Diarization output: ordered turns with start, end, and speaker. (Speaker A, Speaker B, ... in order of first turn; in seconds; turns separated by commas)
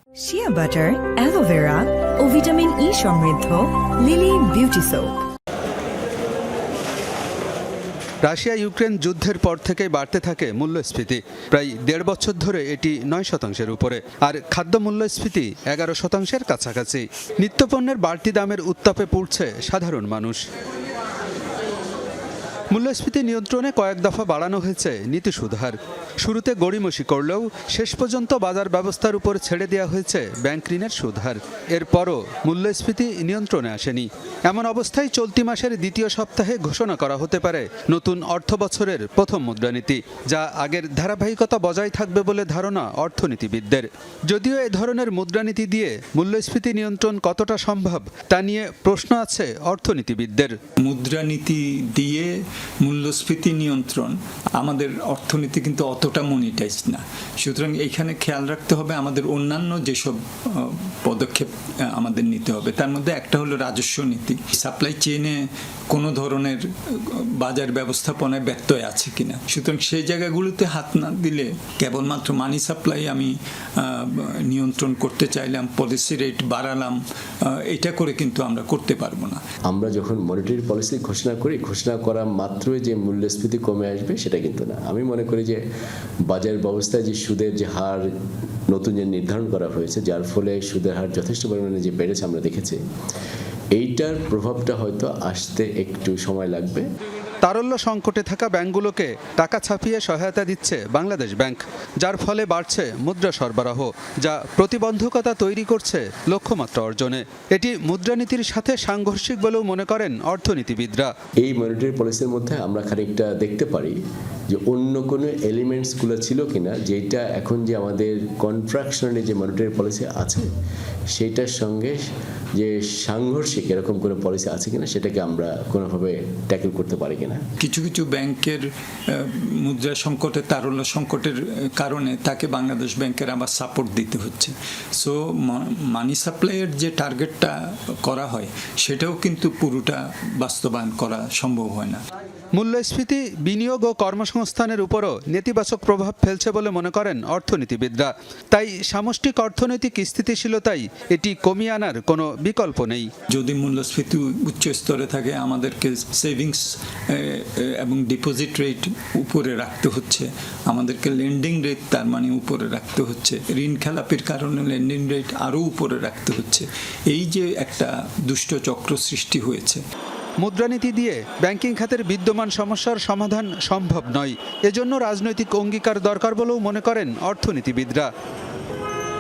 Speaker A: 0.2-5.2, Speaker B: 8.2-20.4, Speaker B: 22.7-50.5, Speaker C: 50.8-52.3, Speaker C: 52.8-77.0, Speaker C: 77.7-79.4, Speaker D: 79.7-85.6, Speaker D: 86.3-88.1, Speaker D: 88.7-92.8, Speaker D: 93.7-96.8, Speaker B: 97.4-111.1, Speaker D: 111.4-114.0, Speaker D: 114.5-120.5, Speaker D: 121.1-122.0, Speaker D: 122.6-127.4, Speaker C: 127.6-142.0, Speaker B: 142.6-153.1, Speaker C: 153.3-169.8, Speaker B: 170.4-178.1